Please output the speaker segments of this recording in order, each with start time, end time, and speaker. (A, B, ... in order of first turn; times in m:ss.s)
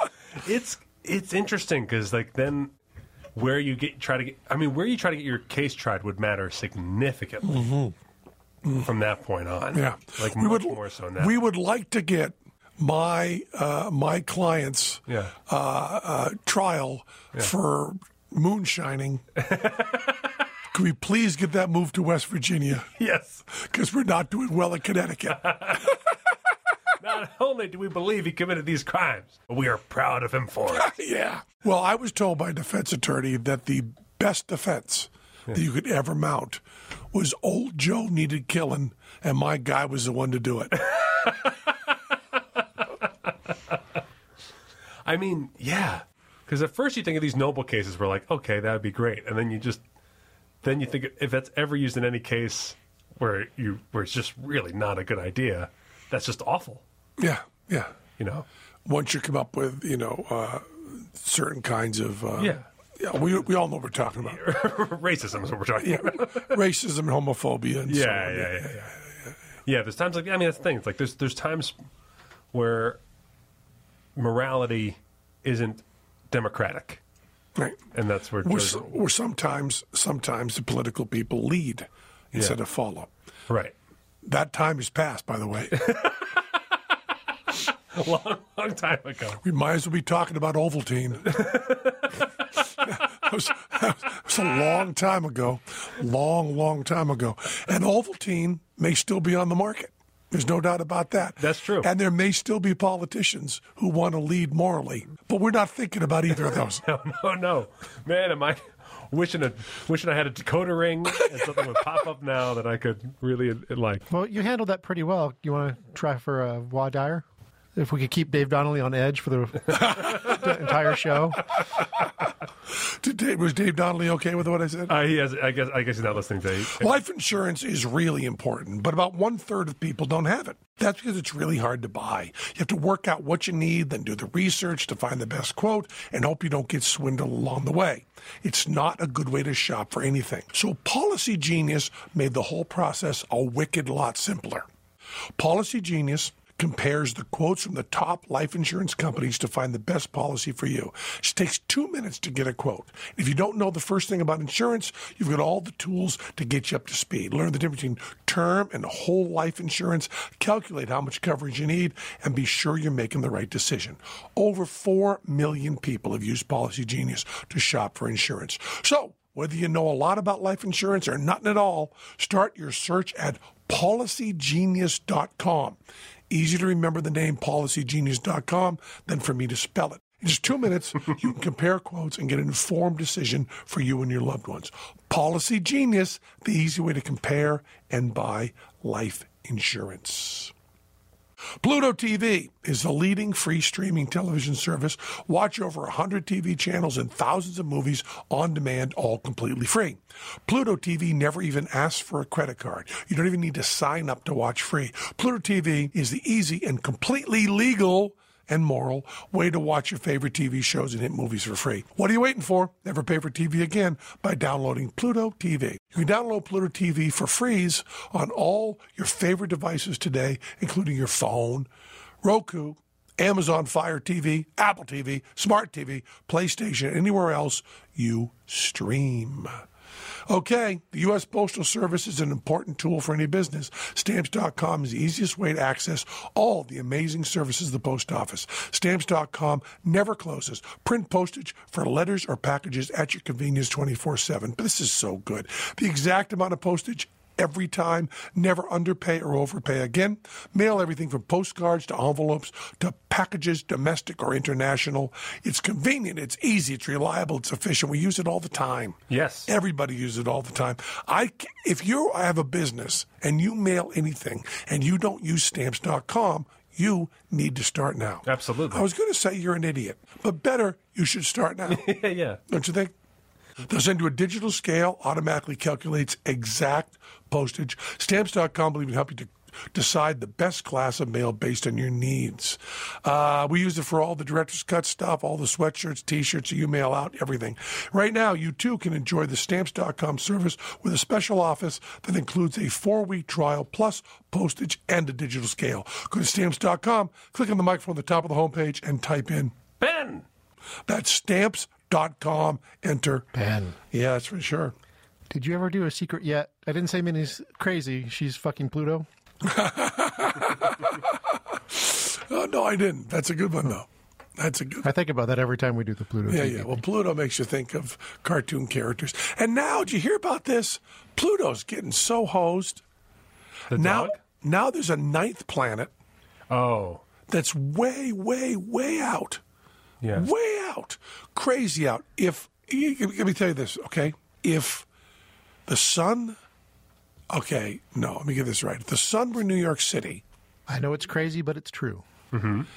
0:00.4-0:02.7 A
0:03.3-0:07.7 A
0:07.4-0:07.9 B
0:08.7-0:11.3 A
0:09.7-0:19.2 B
0:15.1-0:15.3 A
0:19.4-0:20.2 A
0:20.7-0:22.9 B
0:22.9-0:23.4 A
0:23.5-0:26.0 B
0:25.4-0:26.0 A
0:27.0-0:30.9 A
0:30.7-0:40.9 B
0:40.9-0:41.5 A
0:45.0-0:49.8 A
0:50.6-0:56.8 A
0:57.2-0:57.9 B
0:58.2-0:58.4 A
0:58.8-1:04.4 B
1:02.4-1:02.7 A
1:04.3-1:06.6 A
1:05.8-1:08.9 B
1:07.9-1:08.9 A
1:09.6-1:11.7 A
1:12.5-1:13.0 A
1:14.2-1:17.0 A
1:17.6-1:17.8 B
1:17.9-1:18.9 A
1:18.4-1:23.1 B
1:23.5-1:23.7 A
1:24.2-1:25.9 B
1:25.7-1:26.6 A
1:27.9-1:29.4 A
1:29.4-1:31.4 B
1:31.2-1:32.3 A
1:32.8-1:46.8 B
1:41.4-1:41.9 A
1:46.6-1:54.1 A
1:54.1-1:57.2 C
1:57.8-2:01.5 C
2:02.7-2:05.0 B
2:04.9-2:07.0 A
2:06.7-2:24.7 B
2:25.4-2:55.8 B
2:56.3-3:10.5 B
3:11.6-3:41.7 B
3:42.2-3:49.6 B
3:50.3-4:31.9 B
4:19.1-4:19.5 A
4:28.3-4:28.8 A
4:31.7-4:32.4 A
4:32.5-4:32.9 B
4:33.6-4:59.5 B
4:59.8-5:00.2 A
5:00.9-5:03.3 B
5:03.3-5:03.8 C
5:03.9-5:04.7 B
5:05.3-5:09.1 C
5:09.4-5:14.9 B
5:14.8-5:16.8 C
5:16.3-5:22.8 B
5:23.7-5:24.2 A
5:23.7-5:25.9 B
5:26.5-5:27.0 A
5:27.3-5:29.4 B
5:30.0-5:30.3 A
5:30.1-5:34.9 B
5:35.7-5:36.4 B
5:37.3-5:40.2 B
5:40.7-5:42.0 C
5:42.3-5:42.7 A